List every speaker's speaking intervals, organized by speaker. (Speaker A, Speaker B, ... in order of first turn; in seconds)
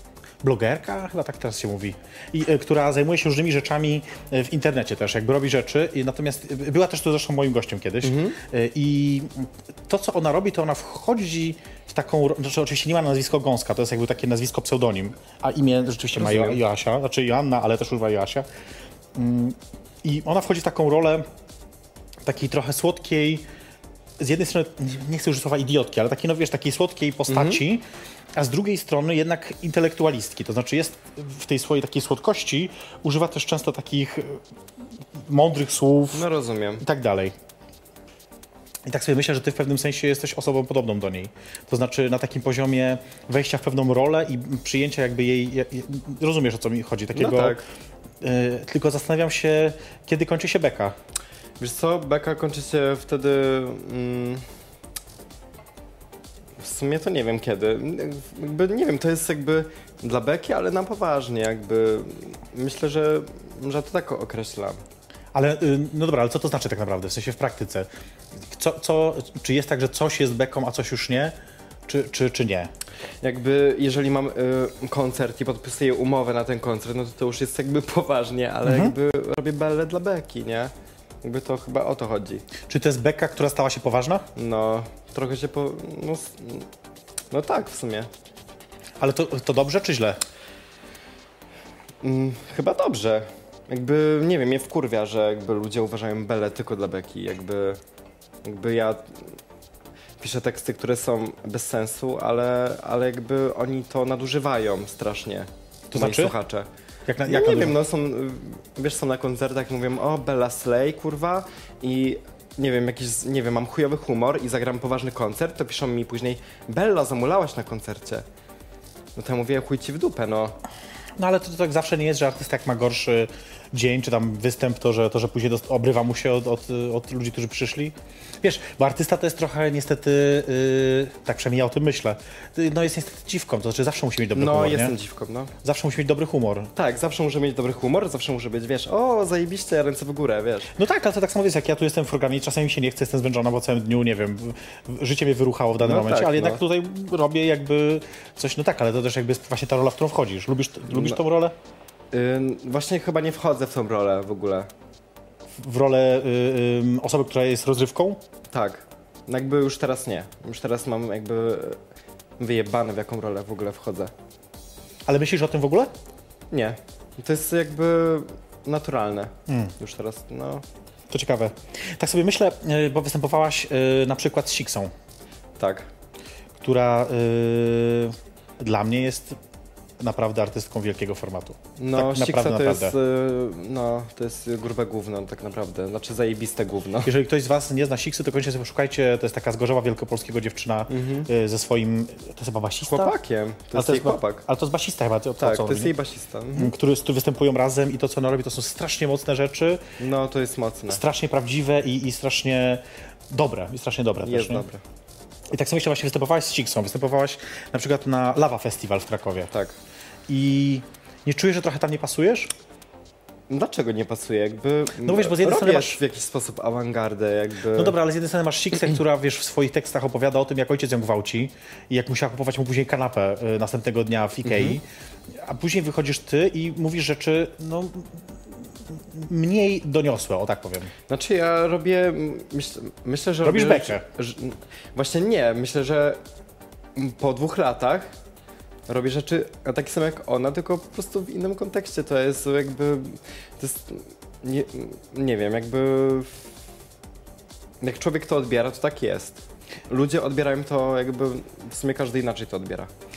Speaker A: 0.4-18.5, 19.1-21.2, 22.2-23.4, 24.2-34.4, 35.2-36.2, 36.8-37.4, 38.9-47.6, 48.2-51.0, 65.3-67.9, 68.4-71.3, 71.9-72.7, 78.6-78.9, 82.6-84.2, 89.0-90.2, 105.9-106.3, 107.1-107.8, 121.2-134.9, 135.6-136.7, 140.7-151.6, 155.6-158.2, 165.1-165.9, 169.5-169.7, 171.1-174.9, 176.6-179.4, 180.0-182.9, 187.1-193.1, 193.7-195.9, 196.5-199.8, 200.9-204.6, 205.5-209.5, 210.3-212.5, 215.0-216.0, 217.7-230.9, 233.4-234.1
Speaker B: 8.0-8.4, 16.1-16.6, 27.3-27.6, 36.1-36.8, 47.1-47.6, 51.6-54.4, 56.6-64.8, 73.2-80.7, 81.2-82.4, 84.4-86.7, 87.3-88.1, 92.0-97.8, 98.4-99.3, 100.2-106.7, 107.2-118.2, 119.2-120.6, 134.3-135.5, 136.7-140.7, 145.8-146.6, 150.9-151.2, 152.1-154.7, 158.5-161.8, 162.4-164.1, 166.5-170.6, 175.6-175.9, 181.8-187.1, 190.9-191.3, 192.9-194.4, 195.4-196.7, 200.0-201.0, 204.2-204.8, 209.5-209.8, 213.5-217.9, 224.4-224.8, 231.1-236.2, 236.9-238.1, 238.9-246.4, 247.8-252.9